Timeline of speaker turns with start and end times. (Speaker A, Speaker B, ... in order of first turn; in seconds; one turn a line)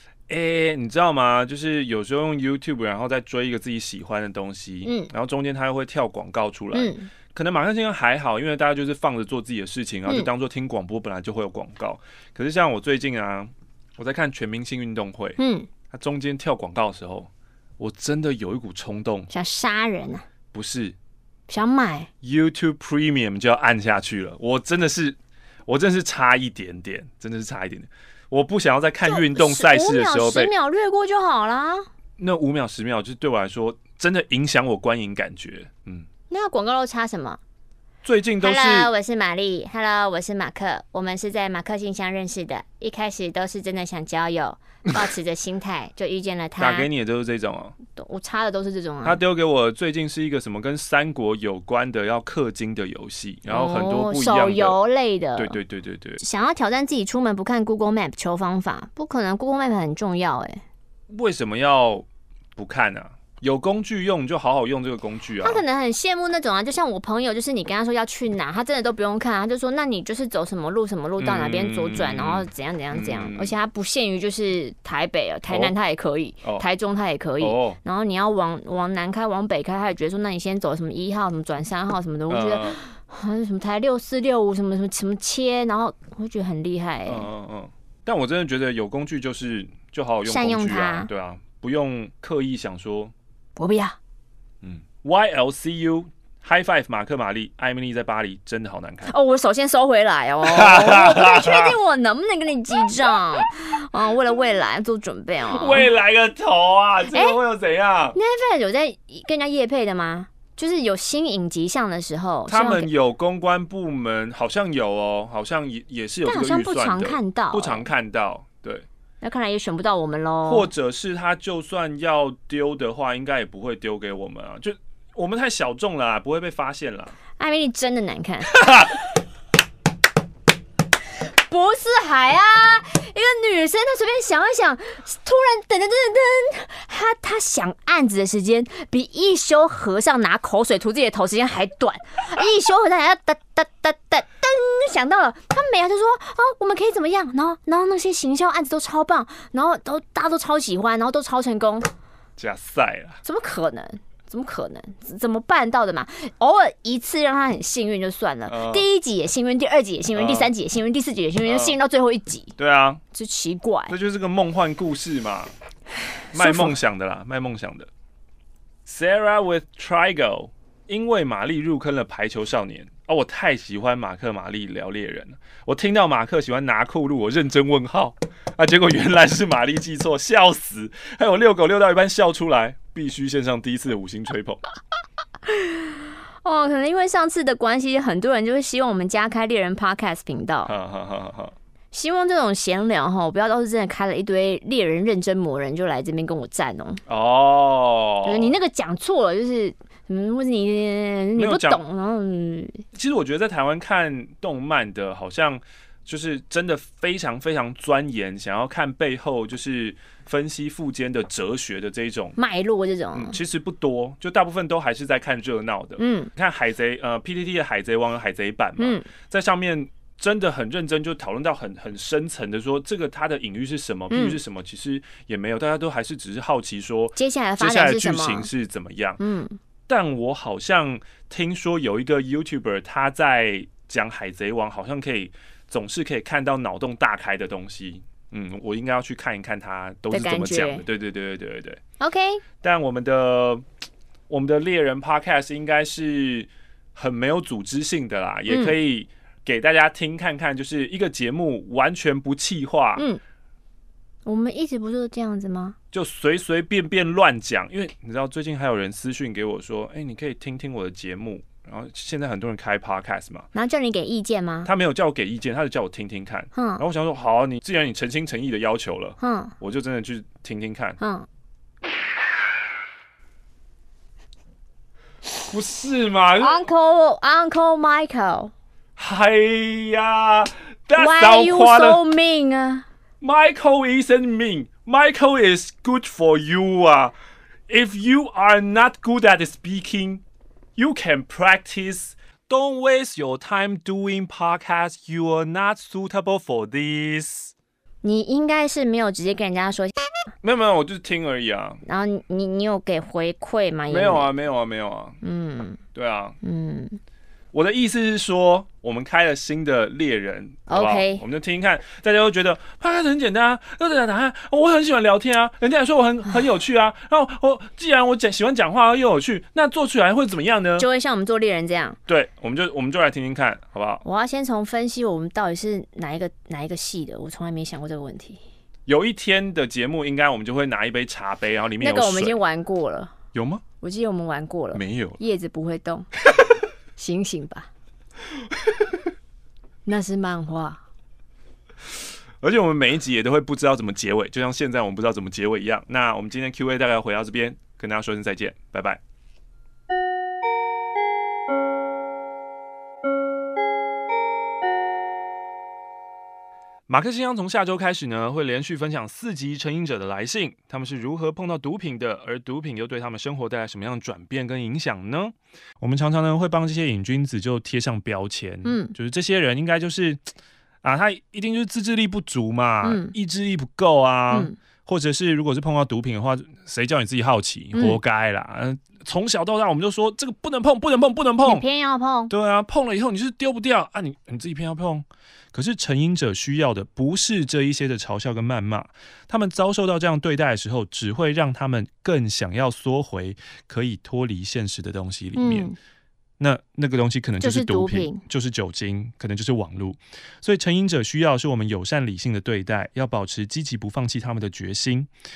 Speaker A: 0.3-15.4
Speaker B: 4.8-5.1
Speaker B: 6.7-7.1
Speaker B: 15.4-15.7
Speaker A: 15.9-19.3
Speaker B: 19.3-20.2
Speaker A: 20.5-20.9
Speaker B: 21.5-22.1
Speaker A: 22.2-30.5
Speaker B: 29.0-31.9
Speaker A: 32.2-36.1
Speaker B: 36.3-37.4
Speaker A: 38.0-38.9
Speaker B: 38.4-46.9
Speaker A: 46.6-47.7
Speaker B: 47.9-49.2
Speaker A: 49.0-54.8
Speaker B: 53.5-55.6
Speaker A: 55.4-56.2
Speaker B: 56.2-60.6
Speaker A: 61.1-65.6
Speaker B: 65.4-87.3
Speaker A: 71.2-73.5
Speaker A: 75.5-75.7
Speaker A: 77.4-77.8
Speaker A: 82.3-82.8
Speaker A: 87.0-93.1
Speaker B: 90.2-91.1
Speaker B: 93.6-94.0
Speaker A: 94.6-99.1
Speaker B: 99.0-105.9
Speaker A: 100.4-101.7
Speaker A: 105.5-108.2
Speaker B: 107.1-107.3
Speaker B: 108.1-112.9
Speaker A: 112.5-118.8
Speaker B: 116.2-117.9
Speaker B: 119.2-120.7
Speaker A: 120.4-127.1
Speaker B: 127.4-128.7
Speaker A: 128.5-128.9
Speaker B: 131.4-151.9
Speaker A: 152.4-153.2
Speaker B: 153.2-162.5
Speaker A: 158.5-158.8
Speaker A: 160.1-160.5
Speaker A: 161.4-161.7
Speaker A: 162.6-163.0
Speaker B: 163.1-163.9
Speaker A: 163.9-165.5
Speaker B: 166.3-166.8
Speaker A: 166.3-167.9
Speaker A: 168.8-184.6
Speaker B: 185.5-190.7
Speaker A: 190.7-191.5
Speaker B: 191.9-197.0
Speaker A: 197.1-198.6
Speaker B: 198.2-202.8
Speaker A: 201.3-201.8
Speaker A: 202.9-212.4
Speaker B: 212.4-213.4
Speaker A: 213.1-229.2
Speaker B: 216.0-216.3
Speaker B: 218.8-219.1
Speaker B: 224.1-224.4
Speaker B: 227.2-228.5
Speaker B: 229.2-229.6
Speaker A: 229.9-241.8
Speaker B: 240.1-240.8
Speaker B: 242.0-242.4
Speaker A: 242.6-243.6
Speaker A: 244.3-253.1
Speaker B: 248.5-248.7
Speaker B: 254.2-255.8
Speaker A: 255.9-263.5
Speaker B: 263.5-264.7
Speaker A: 264.6-271.0
Speaker B: 266.5-266.8
Speaker B: 269.2-269.5
Speaker B: 271.0-271.3
Speaker A: 275.5-276.6
Speaker B: 276.4-278.5
Speaker A: 279.0-282.0
Speaker B: 281.0-282.9
Speaker A: 283.2-287.1
Speaker A: 287.7-290.2
Speaker A: 290.8-297.5
Speaker B: 298.0-300.1
Speaker A: 300.4-301.8
Speaker B: 301.8-304.3
Speaker A: 303.9-305.2
Speaker B: 305.2-305.8
Speaker A: 305.9-306.4
Speaker B: 306.4-307.0
Speaker A: 307.5-320.9
Speaker B: 310.7-311.2
Speaker B: 320.8-322.0
Speaker A: 322.1-324.0
Speaker B: 324.0-328.4
Speaker A: 328.9-332.4
Speaker B: 331.8-333.1
Speaker A: 333.3-333.6
Speaker B: 333.8-336.1
Speaker A: 334.7-335.2
Speaker B: 336.9-337.7
Speaker B: 339.9-340.8
Speaker A: 342.4-349.0
Speaker A: 356.9-370.3
Speaker B: 368.6-368.9
Speaker A: 370.8-381.6
Speaker B: 372.8-373.1
Speaker B: 381.4-382.3
Speaker A: 382.3-395.7
Speaker B: 395.4-395.8
Speaker A: 396.4-405.1
Speaker B: 397.4-398.2